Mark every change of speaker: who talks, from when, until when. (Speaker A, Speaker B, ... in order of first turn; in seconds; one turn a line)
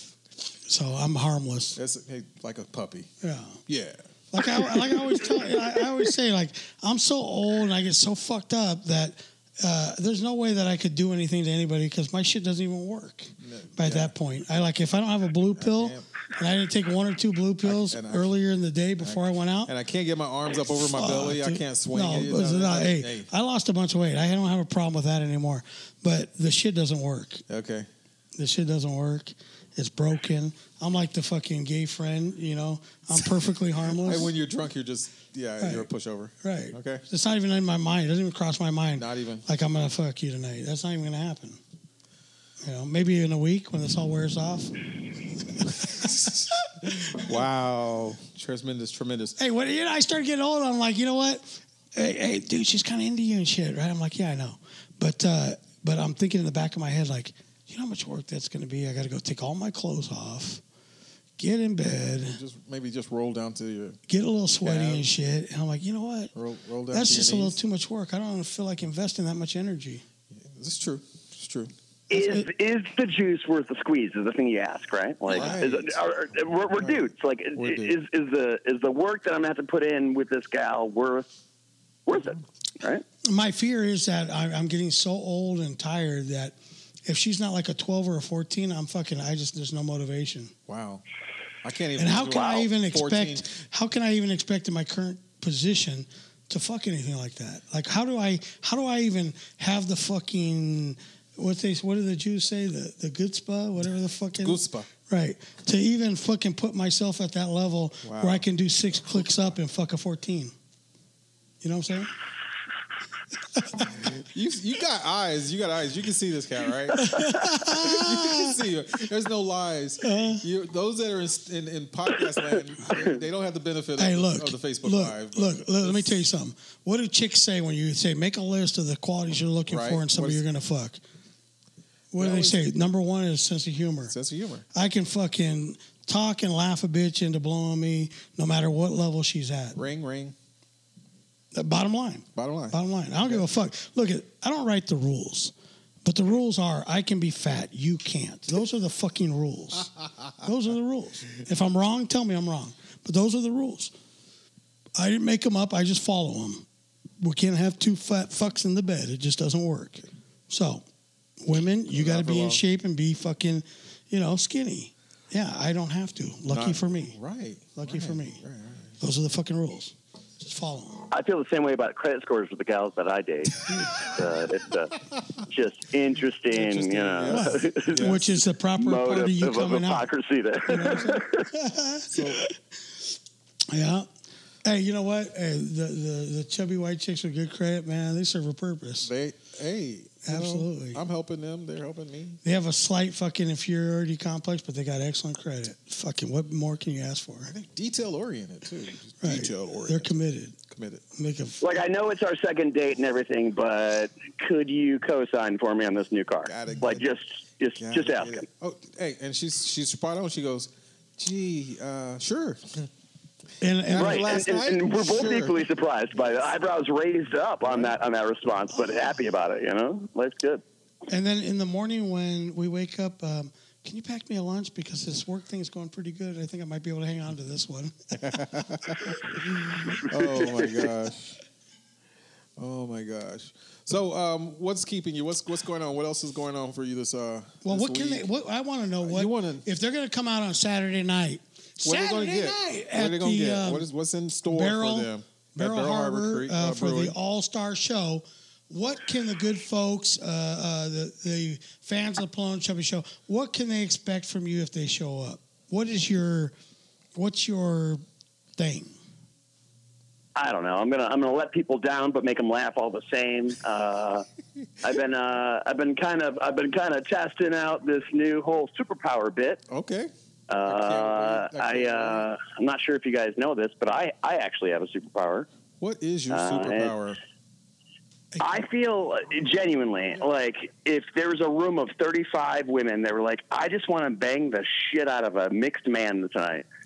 Speaker A: 0.7-1.8
Speaker B: 1.8-3.1
Speaker A: 3.2-3.6
Speaker B: 3.7-4.9
Speaker A: 4.3-19.7
Speaker B: 13.4-14.1
Speaker B: 15.6-16.0
Speaker B: 17.6-18.3
Speaker B: 19.0-23.3
Speaker A: 20.8-27.4
Speaker B: 27.5-27.9
Speaker A: 28.4-34.3
Speaker B: 34.0-37.0
Speaker A: 35.6-35.9
Speaker A: 36.4-41.6
Speaker B: 39.0-39.4
Speaker A: 42.6-44.7
Speaker A: 45.6-46.4
Speaker B: 46.0-46.3
Speaker B: 47.1-49.4
Speaker A: 49.4-60.6
Speaker A: 61.4-62.4
Speaker B: 62.2-64.0
Speaker A: 64.1-66.3
Speaker B: 64.6-65.1
Speaker B: 66.3-67.6
Speaker A: 66.9-70.0
Speaker B: 70.3-71.7
Speaker C: 72.1-81.3
Speaker A: 72.1-72.4
Speaker B: 75.3-76.0
Speaker B: 76.8-77.0
Speaker B: 77.5-78.0
Speaker C: 82.0-83.0
Speaker B: 82.1-82.4
Speaker A: 83.2-90.5
Speaker B: 90.7-91.0
Speaker B: 91.6-93.5
Speaker A: 92.0-110.5
Speaker B: 104.4-104.9
Speaker B: 108.0-108.4
Speaker A: 111.6-112.1
Speaker A: 113.6-113.8
Speaker B: 114.0-126.2
Speaker A: 116.9-118.6
Speaker A: 120.0-120.4
Speaker A: 124.0-131.0
Speaker B: 129.7-130.4
Speaker A: 132.1-134.1
Speaker B: 132.2-132.7
Speaker B: 134.1-134.6
Speaker A: 134.7-139.8
Speaker B: 139.7-140.3
Speaker A: 141.5-145.5
Speaker B: 142.3-143.4
Speaker A: 146.0-153.9
Speaker A: 154.9-156.7
Speaker A: 157.2-160.8
Speaker A: 161.4-167.2
Speaker B: 161.9-162.6
Speaker B: 166.5-168.9
Speaker A: 167.7-168.4
Speaker A: 169.0-171.1
Speaker C: 171.1-178.2
Speaker B: 176.5-178.2
Speaker A: 177.2-180.1
Speaker C: 178.8-181.4
Speaker A: 180.7-182.5
Speaker B: 182.1-182.4
Speaker A: 183.7-184.1
Speaker A: 184.6-189.1
Speaker B: 189.0-192.4
Speaker A: 190.2-191.0
Speaker A: 192.4-197.5
Speaker B: 197.5-200.2
Speaker A: 199.2-200.5
Speaker B: 200.7-201.0
Speaker A: 201.1-201.6
Speaker C: 201.6-208.4
Speaker B: 206.4-207.1
Speaker B: 207.8-212.9
Speaker A: 213.6-214.4
Speaker B: 213.9-215.6
Speaker C: 213.9-220.6
Speaker B: 217.6-217.9
Speaker A: 221.1-228.4
Speaker B: 228.1-231.4
Speaker B: 232.6-238.2
Speaker A: 237.6-243.9
Speaker B: 239.0-239.7
Speaker B: 241.8-247.2
Speaker A: 244.4-256.5
Speaker A: 257.1-258.0
Speaker A: 258.6-258.9
Speaker C: 260.3-264.3
Speaker C: 264.8-269.6
Speaker B: 269.7-270.1
Speaker C: 270.5-275.5
Speaker B: 270.6-272.3
Speaker B: 275.8-277.2
Speaker C: 276.3-276.9
Speaker A: 278.3-278.6
Speaker C: 278.4-286.6